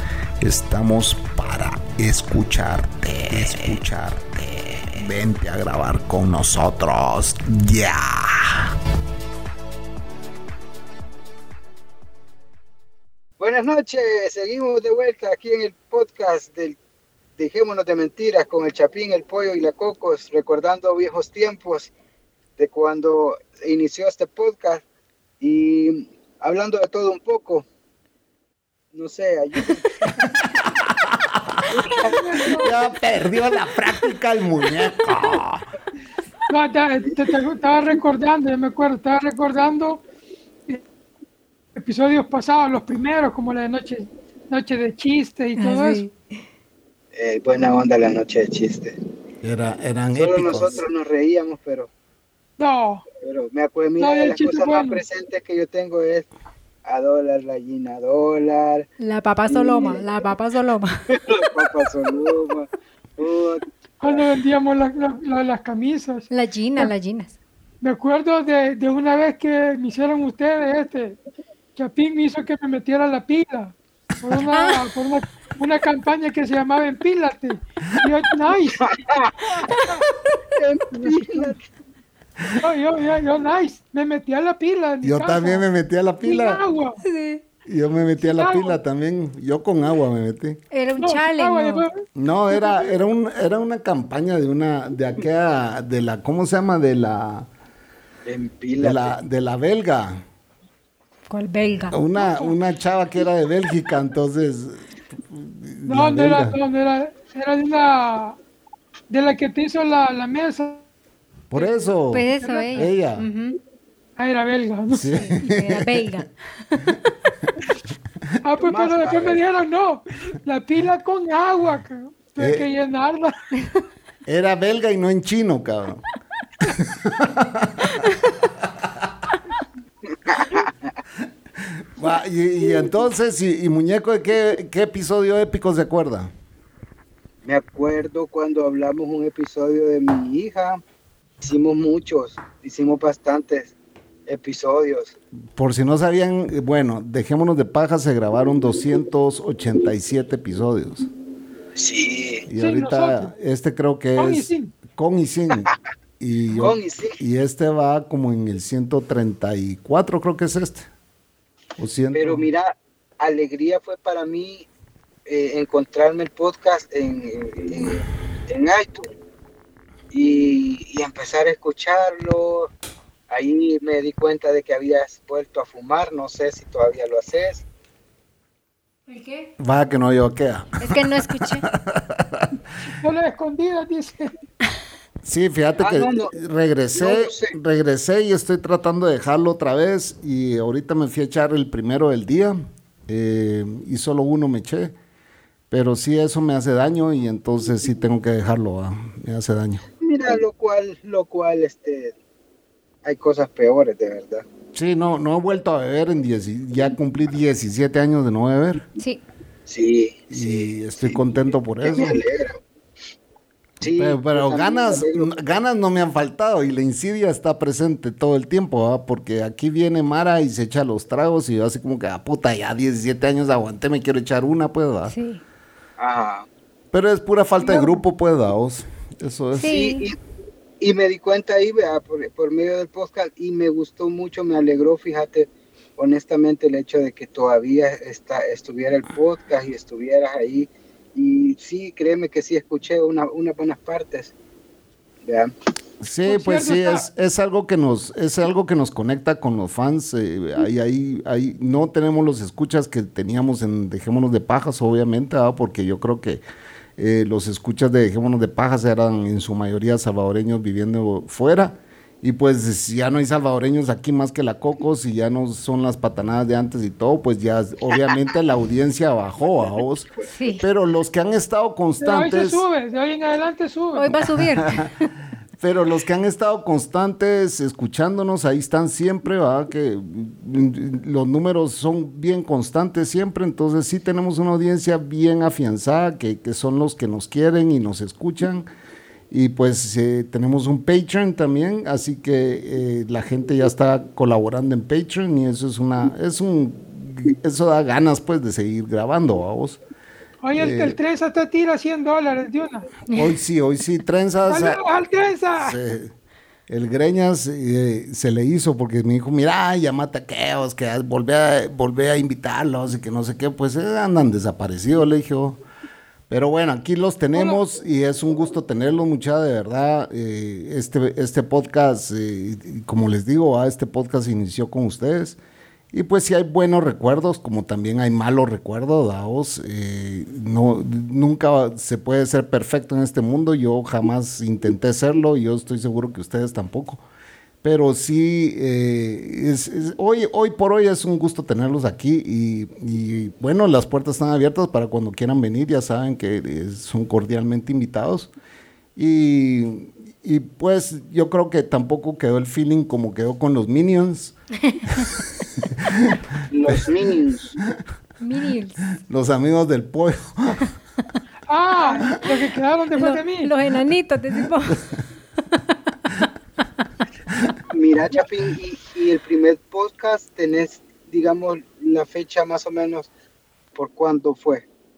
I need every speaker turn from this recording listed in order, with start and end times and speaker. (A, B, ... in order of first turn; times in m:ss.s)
0:00.4-0:08.7 A
0:13.4-0:16.8 B
0:17.4-0:21.9 B
0:22.6-0:24.8 B
0:25.4-0:27.6 B
0:28.9-0:29.9 B
0:30.6-0:31.6 A
0:31.7-0:32.5 B
0:31.9-0:32.8 C
0:32.5-0:35.6 A
0:36.5-0:40.0 C
0:41.8-0:46.0 C
0:45.6-0:46.1 D
0:47.1-0:49.0 B
0:49.4-0:50.8 A
0:50.1-0:51.9 B
0:52.6-0:53.0 C
0:53.2-0:56.3 B
0:54.0-0:55.0 C
0:56.8-0:58.9 B
0:59.0-1:01.1 D
0:59.5-1:00.1 B
1:01.1-1:04.2 B
1:04.0-1:06.9 C
1:06.3-1:07.4 D
1:07.8-1:11.2 C
1:11.8-1:18.9 C
1:14.4-1:14.8 D
1:18.8-1:19.6 B
1:19.5-1:20.0 C
1:20.6-1:21.6 B
1:20.9-1:21.5 C
1:22.5-1:25.6 C
1:25.0-1:26.6 A
1:26.2-1:27.0 C
1:27.0-1:27.4 D
1:27.6-1:30.6 A
1:28.2-1:28.8 C
1:30.7-1:31.8 D
1:31.0-1:33.0 C
1:32.2-1:37.5 A
1:38.2-1:39.2 B
1:38.8-1:40.2 A
1:41.3-1:42.5 D
1:41.9-1:46.6 A
1:45.8-1:48.4 C
1:49.1-1:50.8 C
1:51.5-1:53.3 A
1:51.5-1:52.9 C
1:52.1-1:53.6 D
1:54.2-1:55.2 C
1:54.9-1:56.1 A
1:55.2-1:57.0 D
1:58.4-2:03.5 C
1:58.6-1:59.4 B
2:02.4-2:02.7 A
2:04.2-2:06.0 A
2:06.6-2:08.0 A
2:10.2-2:10.7 B
2:11.6-2:16.3 A
2:17.4-2:20.8 B
2:21.4-2:23.7 B
2:24.3-2:25.2 B
2:25.6-2:31.0 A
2:31.8-2:32.5 B
2:32.5-2:40.9 A
2:32.6-2:33.3 C
2:34.2-2:34.7 C
2:36.5-2:37.2 B
2:41.8-2:42.5 A
2:42.1-2:44.7 B
2:45.2-2:49.1 B
2:50.1-2:52.7 B
2:53.3-2:57.6 B
2:59.1-2:59.5 D
2:59.6-3:02.5 A
3:00.8-3:01.7 D
3:02.8-3:04.3 C
3:05.2-3:14.9 A
3:05.8-3:06.4 B
3:06.9-3:07.5 B
3:15.7-3:19.8 A
3:20.0-3:22.1 B
3:23.0-3:24.4 B
3:24.7-3:28.8 A
3:29.7-3:31.2 B
3:30.3-3:32.2 A
3:31.8-3:32.6 B
3:33.8-3:35.4 B
3:33.9-3:45.1 A
3:45.1-3:45.4 D
3:46.0-3:46.5 B
3:46.9-3:49.8 A
3:47.6-3:48.0 C
3:49.6-3:50.0 D
3:49.6-3:50.2 B
3:50.8-4:04.3 B
4:05.2-4:05.5 B
4:06.0-4:16.4 A
4:06.2-4:07.0 C
4:17.0-4:32.6 A
4:30.3-4:30.6 D
4:32.0-4:34.1 C
4:33.9-4:35.1 D
4:34.5-4:34.9 A
4:35.6-4:48.6 A
4:49.3-4:59.8 A
5:00.4-5:02.9 C
5:00.5-5:01.0 A
5:03.1-5:04.8 A
5:04.5-5:05.8 C
5:05.6-5:06.1 A
5:06.7-5:15.6 A
5:16.3-5:25.4 A
5:17.3-5:17.6 C
5:25.9-5:37.0 A
5:37.6-5:48.3 A
5:49.0-5:54.3 A
5:54.7-5:55.0 D
5:55.8-5:56.1 A
5:56.5-5:57.6 B
5:58.2-5:58.8 D
5:59.0-6:00.7 A
6:01.5-6:03.5 C
6:02.9-6:04.8 D
6:07.7-6:13.1 B
6:13.7-6:14.6 B